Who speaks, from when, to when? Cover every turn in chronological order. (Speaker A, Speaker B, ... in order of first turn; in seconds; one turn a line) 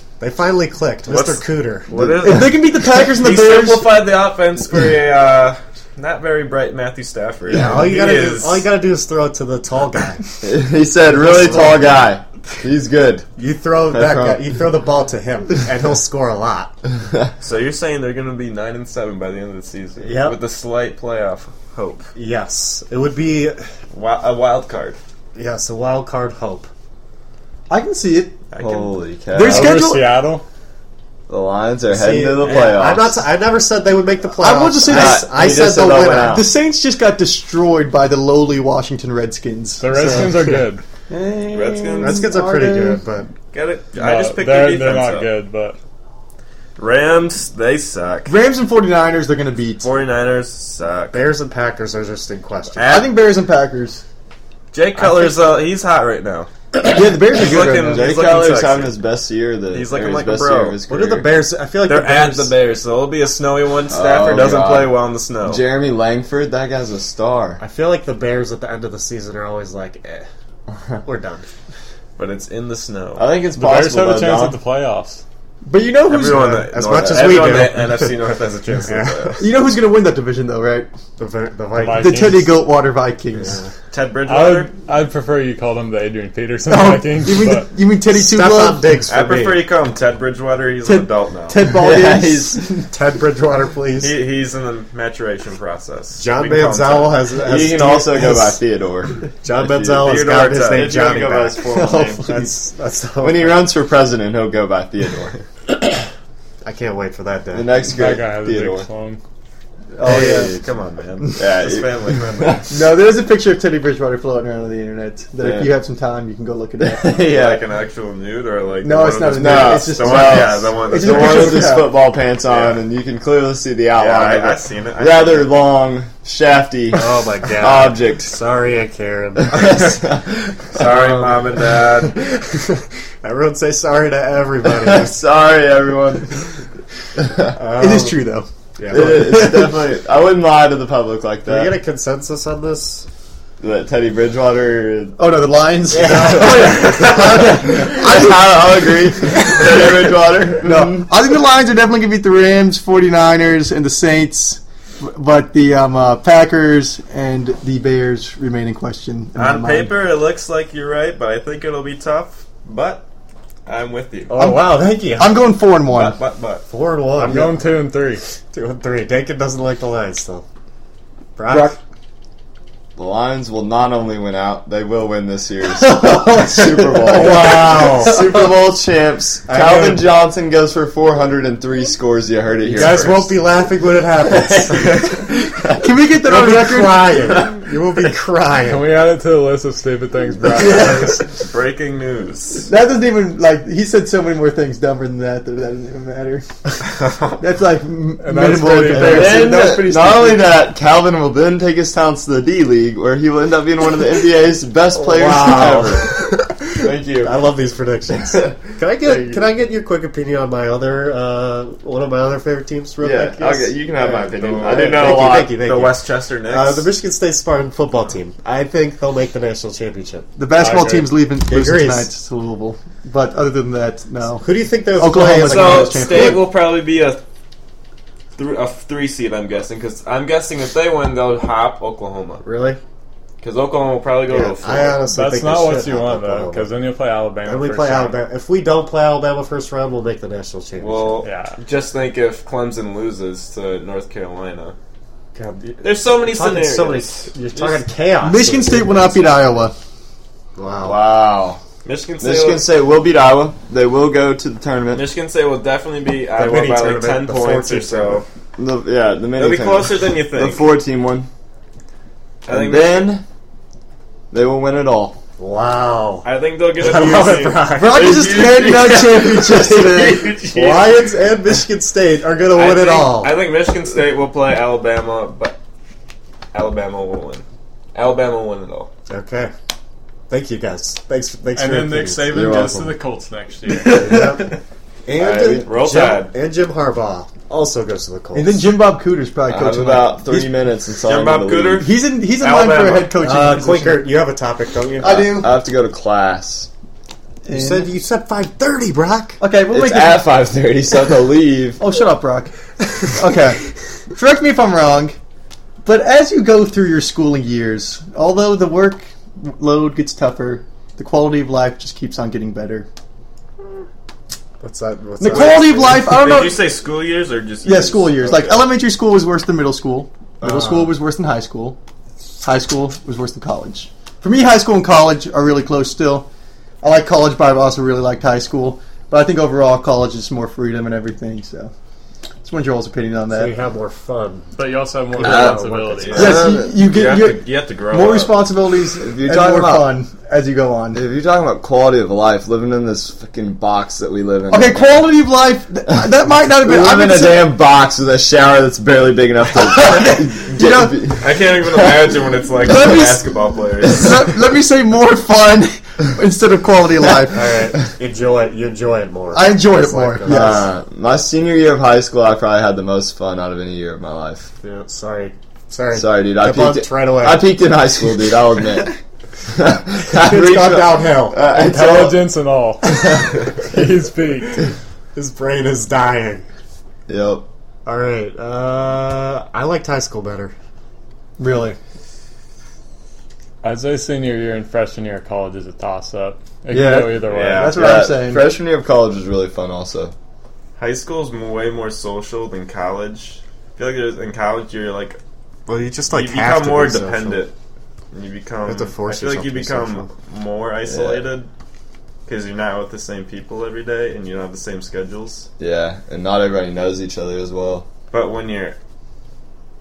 Speaker A: 0.2-2.2
Speaker B: 1.1-8.7
Speaker C: 2.1-4.0
Speaker A: 7.5-10.2
Speaker D: 10.4-13.3
Speaker A: 11.1-11.8
Speaker A: 13.4-16.7
Speaker D: 13.9-14.4
Speaker B: 17.4-22.1
Speaker A: 20.0-20.4
Speaker A: 22.1-23.6
Speaker B: 23.9-25.0
Speaker A: 25.4-26.7
Speaker C: 27.7-28.4
Speaker B: 28.5-28.9
Speaker D: 28.6-29.8
Speaker C: 29.3-30.1
Speaker E: 29.4-30.4
Speaker D: 31.3-33.2
Speaker A: 31.9-36.4
Speaker B: 32.4-32.7
Speaker C: 34.4-43.0
Speaker D: 34.9-36.5
Speaker E: 39.8-40.8
Speaker B: 41.5-42.2
Speaker A: 42.0-43.3
Speaker B: 43.5-45.3
Speaker E: 43.9-45.8
Speaker B: 46.8-48.3
Speaker C: 48.3-50.0
Speaker B: 49.8-51.3
Speaker A: 51.1-53.0
Speaker B: 52.8-53.1
Speaker C: 52.8-54.0
Speaker B: 54.7-56.5
Speaker C: 55.0-55.4
Speaker C: 56.8-58.1
Speaker B: 57.2-58.9
Speaker D: 57.3-61.3
Speaker B: 59.7-60.8
Speaker A: 60.9-62.5
Speaker B: 61.9-65.6
Speaker D: 63.9-67.6
Speaker A: 67.6-70.3
Speaker A: 71.0-71.5
Speaker B: 72.2-73.3
Speaker D: 73.2-74.6
Speaker E: 73.5-75.2
Speaker C: 75.7-76.8
Speaker B: 76.1-79.4
Speaker A: 76.7-78.2
Speaker D: 77.0-77.5
Speaker A: 78.8-79.4
Speaker C: 79.4-80.9
Speaker A: 81.2-82.4
Speaker E: 81.7-82.5
Speaker C: 82.0-83.6
Speaker A: 83.5-83.7
Speaker B: 83.9-84.7
Speaker E: 84.3-87.7
Speaker C: 86.7-88.9
Speaker A: 88.1-89.7
Speaker B: 89.1-91.6
Speaker C: 90.8-92.8
Speaker D: 91.6-92.8
Speaker A: 92.9-94.1
Speaker B: 94.0-97.3
Speaker A: 96.2-98.6
Speaker D: 97.4-102.4
Speaker A: 99.4-101.6
Speaker B: 100.0-101.0
Speaker C: 101.7-102.5
Speaker A: 102.2-103.7
Speaker D: 103.2-105.4
Speaker A: 106.6-107.7
Speaker D: 107.5-108.9
Speaker E: 107.8-109.2
Speaker C: 110.0-110.7
Speaker B: 110.0-112.7
Speaker D: 111.4-112.8
Speaker C: 112.7-117.2
Speaker D: 115.4-115.8
Speaker D: 116.8-117.6
Speaker B: 117.1-121.8
Speaker C: 118.8-121.9
Speaker D: 119.3-128.4
Speaker B: 122.4-122.8
Speaker B: 124.0-125.5
Speaker A: 126.9-129.8
Speaker D: 129.5-130.4
Speaker B: 129.5-130.0
Speaker B: 130.7-132.3
Speaker A: 130.9-135.2
Speaker D: 134.7-136.5
Speaker A: 137.5-138.3
Speaker C: 137.7-139.8
Speaker A: 138.8-139.5
Speaker D: 138.9-141.7
Speaker A: 141.5-143.1
Speaker D: 143.6-145.4
Speaker C: 145.2-149.6
Speaker A: 145.9-147.1
Speaker D: 145.9-151.1
Speaker C: 150.6-159.9
Speaker B: 159.3-163.1
Speaker B: 163.7-164.3
Speaker A: 164.3-165.5
Speaker C: 164.4-166.2
Speaker B: 165.8-166.7
Speaker A: 166.7-167.6
Speaker E: 167.2-168.2
Speaker A: 168.5-170.4
Speaker A: 171.4-171.8
Speaker C: 171.5-171.8
Speaker D: 173.0-183.3
Speaker C: 175.8-178.4
Speaker A: 177.1-178.2
Speaker A: 179.5-180.1
Speaker A: 182.7-185.2
Speaker E: 182.8-183.3
Speaker D: 184.2-185.8
Speaker C: 185.8-187.5
Speaker A: 186.2-188.9
Speaker E: 188.6-191.2
Speaker B: 190.7-192.7
Speaker C: 192.7-196.5
Speaker B: 197.0-197.4
Speaker C: 197.4-200.5
Speaker E: 198.2-199.6
Speaker D: 198.9-206.2
Speaker A: 204.9-220.3
Speaker D: 206.8-207.3
Speaker D: 209.1-209.4
Speaker D: 213.0-215.6
Speaker B: 214.2-216.9
Speaker C: 220.4-226.6
Speaker E: 220.6-221.1
Speaker A: 221.4-222.1
Speaker A: 224.4-226.4
Speaker B: 225.4-227.2
Speaker B: 228.4-232.4
Speaker A: 232.4-232.8
Speaker B: 233.4-235.0
Speaker A: 234.3-236.7
Speaker E: 235.1-238.2
Speaker A: 237.4-241.2
Speaker B: 240.8-244.8
Speaker E: 241.2-241.6
Speaker A: 245.3-249.3
Speaker B: 245.8-247.8
Speaker C: 248.2-249.7
Speaker A: 250.6-251.0
Speaker D: 250.8-251.6
Speaker B: 251.8-252.6
Speaker D: 252.2-255.1
Speaker B: 254.9-258.3
Speaker A: 256.4-258.2
Speaker D: 258.6-261.3
Speaker B: 259.4-260.7
Speaker B: 262.4-263.2
Speaker D: 262.5-263.2
Speaker D: 264.3-265.2
Speaker A: 265.4-268.3
Speaker B: 266.2-271.2
Speaker C: 267.8-270.4
Speaker A: 270.4-273.4
Speaker B: 272.5-275.6
Speaker B: 276.5-278.9
Speaker A: 279.1-279.5
Speaker A: 280.3-282.9
Speaker E: 281.5-284.3
Speaker D: 282.3-282.9
Speaker A: 283.8-284.5
Speaker A: 285.1-288.7
Speaker B: 285.2-286.3
Speaker C: 288.3-290.5
Speaker D: 289.5-291.9
Speaker B: 291.0-293.1
Speaker C: 291.8-294.1
Speaker A: 293.1-295.4
Speaker C: 295.0-295.5
Speaker D: 295.1-296.7
Speaker C: 297.5-297.9
Speaker A: 297.5-299.4
Speaker C: 299.4-300.3
Speaker D: 299.7-301.8
Speaker C: 301.8-305.2
Speaker C: 305.9-312.9
Speaker A: 314.6-316.1
Speaker C: 315.2-316.7
Speaker B: 315.8-318.7
Speaker C: 317.6-321.8
Speaker A: 320.4-320.9
Speaker C: 322.4-326.3
Speaker C: 326.8-331.7
Speaker C: 332.4-333.6
Speaker A: 333.3-334.6
Speaker E: 334.6-336.4
Speaker A: 335.1-336.4
Speaker D: 335.2-336.9
Speaker B: 336.0-338.5
Speaker C: 336.2-341.1
Speaker D: 339.0-340.0
Speaker D: 340.9-345.1
Speaker C: 344.5-347.6
Speaker D: 345.9-352.1
Speaker C: 349.6-351.1
Speaker B: 351.2-354.2
Speaker C: 352.6-353.3
Speaker C: 353.9-357.5
Speaker A: 357.2-360.7
Speaker C: 359.4-360.7
Speaker D: 360.3-364.5
Speaker A: 364.6-367.5
Speaker D: 365.9-368.9
Speaker D: 369.5-372.2
Speaker A: 370.1-372.2
Speaker E: 371.5-374.7
Speaker A: 375.1-376.4
Speaker D: 377.1-377.5
Speaker A: 377.9-380.5
Speaker C: 381.4-381.8
Speaker E: 383.6-387.8
Speaker D: 386.7-390.1
Speaker B: 387.3-387.9
Speaker C: 387.5-388.6
Speaker B: 390.8-395.2
Speaker A: 395.7-397.5
Speaker B: 396.1-397.5
Speaker B: 398.1-401.5
Speaker A: 398.6-400.1
Speaker D: 400.9-401.3
Speaker B: 402.3-405.5
Speaker D: 405.6-407.9
Speaker B: 408.1-408.8